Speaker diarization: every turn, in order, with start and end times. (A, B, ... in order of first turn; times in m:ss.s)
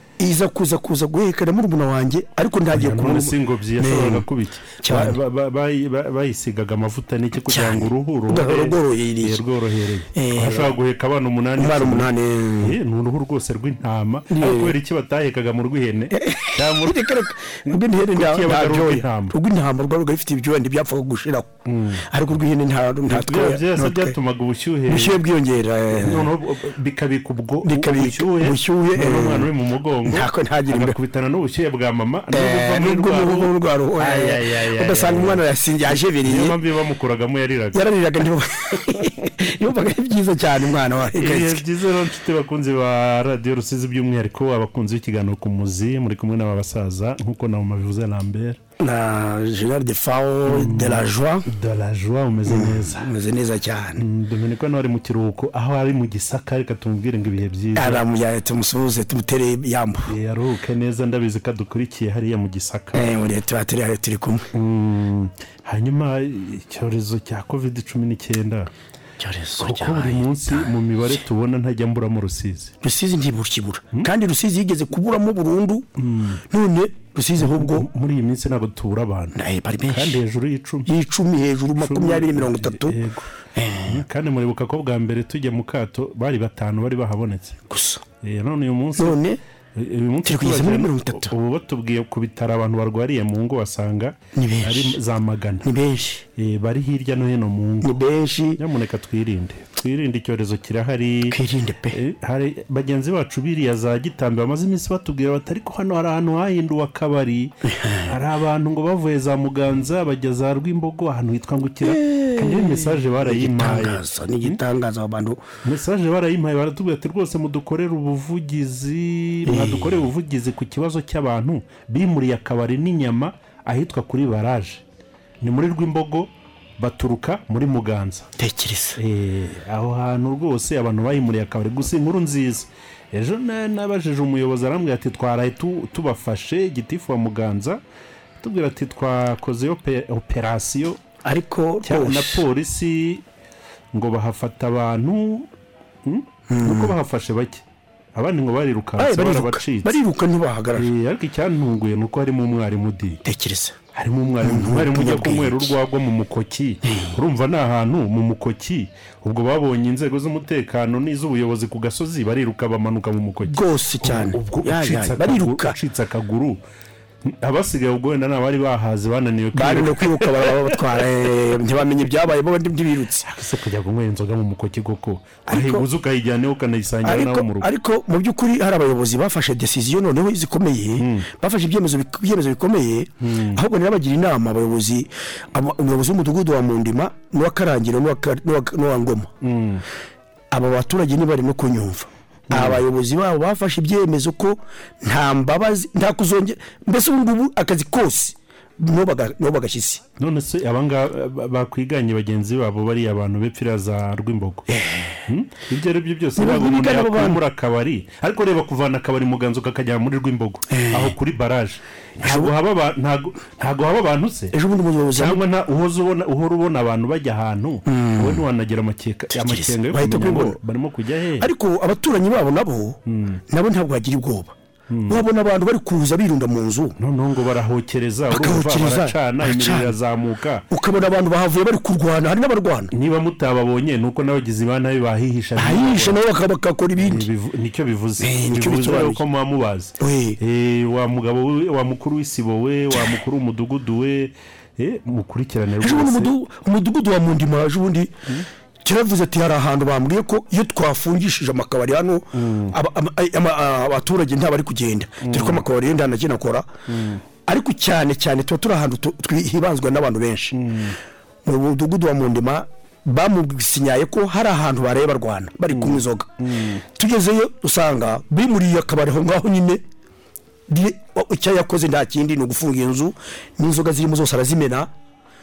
0:00.2-0:04.2 A
0:02.7-0:17.0 B
0:04.8-0:05.2 A
0:07.4-0:09.4 A
0:10.1-0:10.7 A
0:11.6-0:12.8 A
0:14.3-0:14.8 A
0:16.1-0:21.5 A
0:17.7-0:19.3 B
0:21.7-0:22.1 B
0:22.1-0:24.2 A
0:23.1-0:25.2 B
0:24.9-0:26.3 A
0:25.9-0:35.4 B
0:27.6-0:29.5 A
0:30.0-0:31.0 A
0:32.3-0:36.6 A
0:36.0-0:37.8 B
0:37.7-0:41.6 A
0:41.1-0:48.6 B
0:48.8-0:51.5 A
0:50.5-0:53.1 B
0:52.5-0:54.0 A
0:54.0-0:58.0 B
0:57.8-1:00.1 A
1:00.1-1:03.1 B
1:02.9-1:04.5 A
1:04.5-1:08.7 B
1:09.2-1:11.2 A
1:09.6-1:12.7 B
1:12.8-1:15.9 A
1:16.0-1:16.4 B
1:16.5-1:17.9 A
1:17.4-1:20.9 B
1:19.3-1:20.2 A
1:20.9-1:23.0 A
1:21.8-1:23.3 B
1:23.5-1:24.0 A
1:23.8-1:27.6 B
1:27.7-1:28.0 A
1:28.2-1:29.2 B
1:29.0-1:29.4 A
1:29.8-1:35.7 B
1:30.2-1:31.3 A
1:34.3-1:35.0 A
1:35.6-1:36.2 A
1:36.4-1:38.0 B
1:37.8-1:38.6 A
1:38.6-1:41.4 B
1:41.3-1:42.0 A
1:41.9-1:47.5 B
1:47.6-1:48.2 A
1:48.1-1:54.6 B
1:51.8-1:55.4 A
1:55.6-2:04.8 B
1:59.4-2:00.1 A
2:05.4-2:08.3 B
2:08.4-2:09.0 A
2:09.0-2:17.8 B
2:18.4-2:21.0 B
2:21.2-2:22.4 A
2:21.8-2:23.2 B
2:23.9-2:25.5 B
2:26.0-2:27.6 B
2:26.5-2:27.0 A
2:28.2-2:30.0 B
2:29.0-2:30.9 A
2:30.8-2:33.2 B
2:33.2-2:33.8 A
2:34.0-2:46.6 B
2:34.4-2:35.8 A
2:36.8-2:37.2 A
2:43.4-2:45.8 A
2:47.2-2:50.8 B
2:49.5-2:53.3 A
2:53.2-2:57.7 B
2:55.5-2:55.9 A
2:57.0-3:09.3 A
3:01.0-3:01.3 B
3:03.2-3:03.6 B
3:09.4-3:09.8 B
3:10.5-3:20.0 A
3:12.5-3:12.8 B
3:20.2-3:24.7 B
3:24.7-3:25.2 A
3:25.3-3:34.5 B
3:26.4-3:27.4 A
3:30.7-3:31.2 A
3:32.2-3:32.5 A
3:34.5-3:35.4 A
3:35.2-3:41.5 B
3:37.8-3:38.4 A
3:39.3-3:40.6 A
3:41.4-3:44.5 A
3:43.1-3:43.4 B
3:44.9-3:45.2 B
3:45.1-3:47.0 A
3:47.0-3:50.7 B
3:48.3-3:50.0 A
3:50.7-3:52.9 A
3:52.9-3:56.2 B
3:55.6-3:57.3 A
3:57.0-4:06.3 B
3:58.2-3:59.2 A
4:00.0-4:00.4 A
4:05.8-4:08.1 A
4:08.8-4:16.7 A
4:12.4-4:12.7 B
4:15.2-4:15.6 B
4:16.9-4:17.2 B
4:17.5-4:20.5 A
4:20.5-4:21.0 B
4:21.4-4:26.3 A
4:25.7-4:26.8 B
4:27.0-4:29.8 A
4:30.7-4:34.9 A